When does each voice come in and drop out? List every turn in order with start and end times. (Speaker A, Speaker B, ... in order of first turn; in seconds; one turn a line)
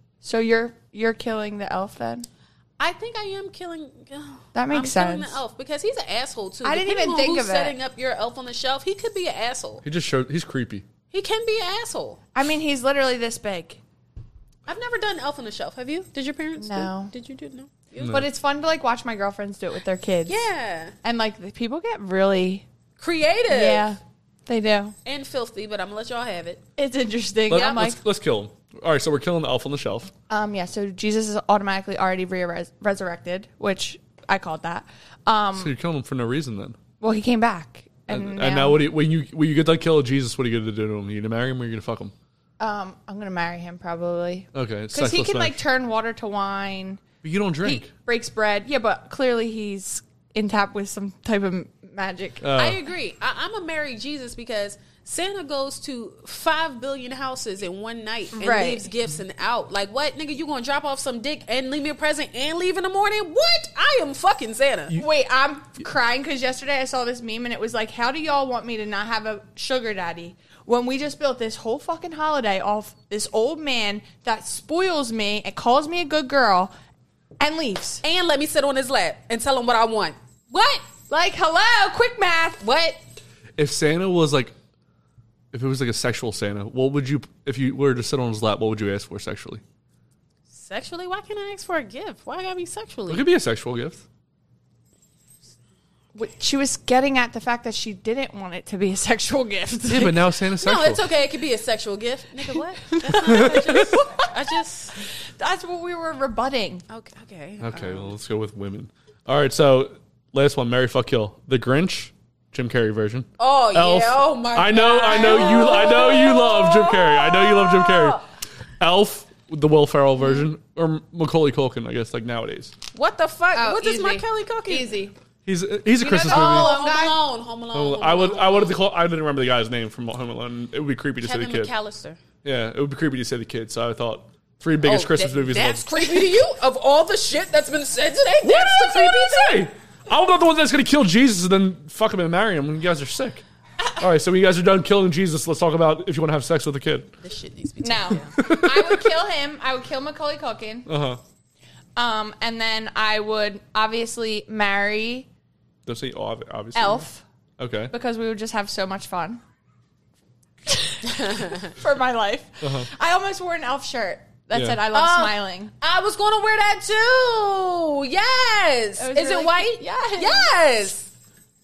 Speaker A: 0.2-2.3
Speaker B: 2.8-9.8
Speaker A: 4.5-5.4
Speaker A: 6.6-7.8
Speaker C: 9.8-10.8
Speaker B: 11.1-12.2
Speaker A: 12.3-13.8
Speaker B: 14.7-18.2
Speaker A: 16.6-17.1
Speaker C: 18.0-18.3
Speaker A: 18.1-20.4
Speaker B: 20.3-20.9
Speaker A: 21.0-22.6
Speaker B: 23.0-23.9
Speaker A: 23.5-25.0
Speaker B: 25.1-26.6
Speaker A: 26.8-28.0
Speaker C: 27.5-30.1
Speaker A: 30.3-35.8
Speaker C: 35.6-36.8
Speaker A: 37.0-38.9
Speaker C: 38.1-42.1
Speaker A: 42.6-47.0
Speaker C: 44.5-45.6
Speaker C: 47.2-47.9
Speaker A: 47.6-52.5
Speaker C: 52.4-52.8
Speaker B: 52.6-65.0
Speaker A: 58.4-58.8
Speaker A: 65.0-76.7
Speaker A: 77.4-78.0
Speaker B: 78.0-80.9
Speaker A: 81.1-82.6
Speaker B: 82.6-83.0
Speaker C: 83.6-84.5
Speaker C: 85.5-89.6
Speaker B: 90.5-93.3
Speaker C: 93.1-94.0
Speaker A: 96.2-100.3
Speaker C: 99.9-101.0
Speaker B: 100.6-105.0
Speaker A: 102.9-104.3
Speaker A: 105.4-106.8
Speaker B: 106.9-108.1
Speaker C: 107.6-118.2
Speaker B: 113.4-118.2
Speaker A: 115.1-116.2
Speaker C: 118.8-122.7
Speaker B: 122.9-125.0
Speaker A: 123.5-125.2
Speaker C: 125.5-126.7
Speaker A: 126.0-127.2
Speaker B: 126.2-128.8
Speaker C: 127.7-131.7
Speaker B: 131.2-132.2
Speaker C: 132.4-135.9
Speaker B: 134.8-139.7
Speaker C: 138.4-143.4
Speaker C: 144.0-147.1
Speaker B: 147.2-148.5
Speaker A: 147.8-150.9
Speaker C: 148.4-148.9
Speaker C: 150.9-151.2
Speaker A: 152.0-155.3
Speaker C: 155.9-157.1
Speaker A: 156.8-157.2
Speaker C: 157.6-157.9
Speaker A: 157.9-159.4
Speaker A: 160.7-165.7
Speaker B: 161.1-161.7
Speaker C: 162.6-162.9
Speaker C: 164.5-164.8
Speaker B: 164.9-171.1
Speaker A: 169.0-170.6